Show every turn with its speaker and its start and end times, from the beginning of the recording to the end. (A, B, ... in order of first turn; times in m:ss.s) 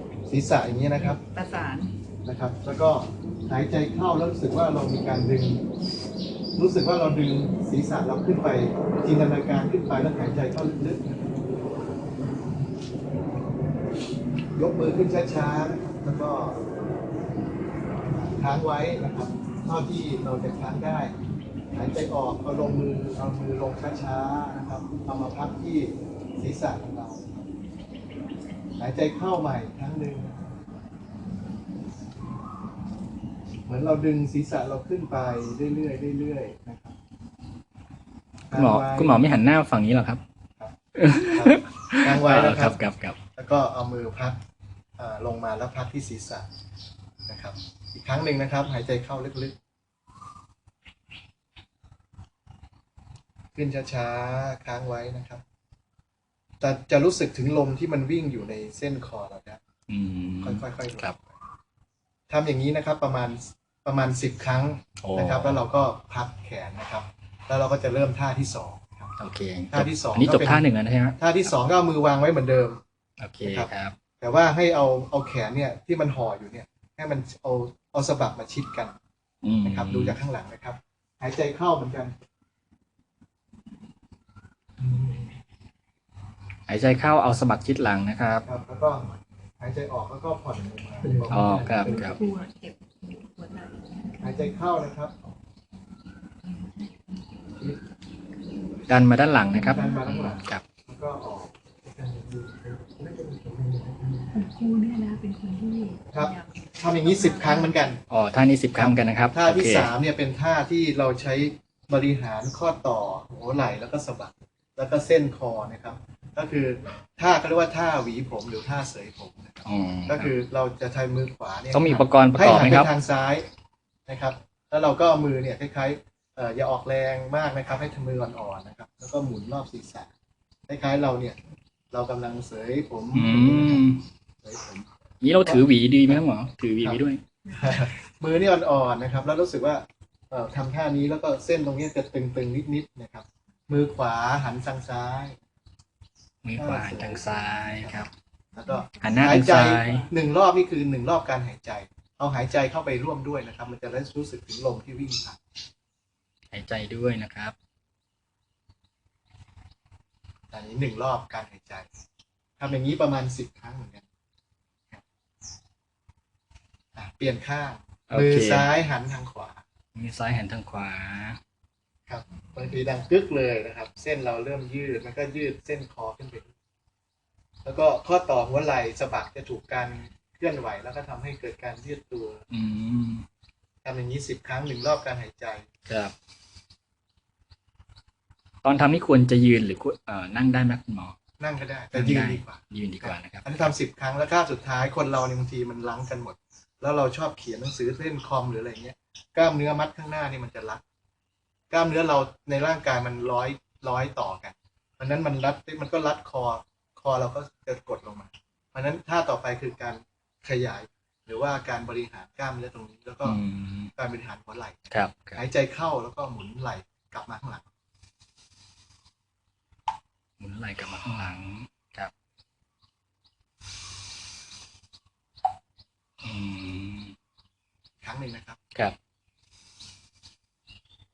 0:00.3-0:01.2 A
0:01.3-0:01.9 B
0:02.2-0:05.6 A
0:06.6-0:11.3 A
0:14.5-0:16.6 A
0:18.1-0:21.1 A
0:21.7-0:27.4 A
0:28.8-0:30.5 A
0:33.6-0:37.0 A
0:38.5-0:39.2 A
0:38.5-0:40.2 C
0:40.9-0:43.2 C
0:41.3-0:42.8 A
0:43.4-0:44.4 A
0:45.0-0:46.5 A
0:47.3-0:49.5 A
0:53.5-0:55.4 A
0:56.6-0:59.6 A
0:59.9-1:01.1 C
1:00.4-1:01.3 A
1:02.3-1:09.1 A
1:05.0-1:05.6 C
1:09.2-1:11.5 C
1:09.7-1:10.6 A
1:11.2-1:12.8 A
1:13.2-1:13.9 C
1:13.4-1:18.9 A
1:19.4-1:20.2 C
1:19.6-1:22.1 A
1:26.7-1:28.4 C
1:28.4-1:32.2 A
1:31.3-1:32.2 C
1:31.8-1:34.5 B
1:34.2-1:35.1 A
1:36.4-1:36.9 B
1:38.9-1:40.6 C
1:39.5-1:44.3 A
1:39.7-1:40.1 B
1:44.3-1:47.9 B
1:46.1-1:48.0 A
1:48.1-1:49.9 C
1:48.7-2:03.4 A
1:59.6-2:00.3 C
2:01.7-2:02.9 C
2:04.1-2:10.1 A
2:10.7-2:11.4 A
2:11.9-2:14.9 A
2:13.1-2:14.0 C
2:15.2-2:17.2 C
2:15.4-2:16.2 A
2:16.8-2:25.4 A
2:26.4-2:28.1 C
2:26.6-2:35.4 A
2:29.0-2:30.1 C
2:36.5-2:37.5 C
2:40.5-2:41.9 A
2:42.6-2:44.0 A
2:47.0-2:49.6 A
2:48.1-2:48.7 C
2:49.9-2:51.4 C
2:52.1-2:56.5 A
2:57.6-3:02.4 A
3:02.5-3:03.2 C
3:03.8-3:05.7 A
3:05.9-3:06.1 C
3:08.6-3:11.2 C
3:11.4-3:20.8 A
3:11.9-3:13.7 C
3:21.7-3:33.4 A
3:33.2-3:33.9 C
3:34.0-3:37.6 A
3:34.9-3:35.4 C
3:40.4-3:42.1 C
3:46.2-3:47.1 C
3:48.0-3:48.6 A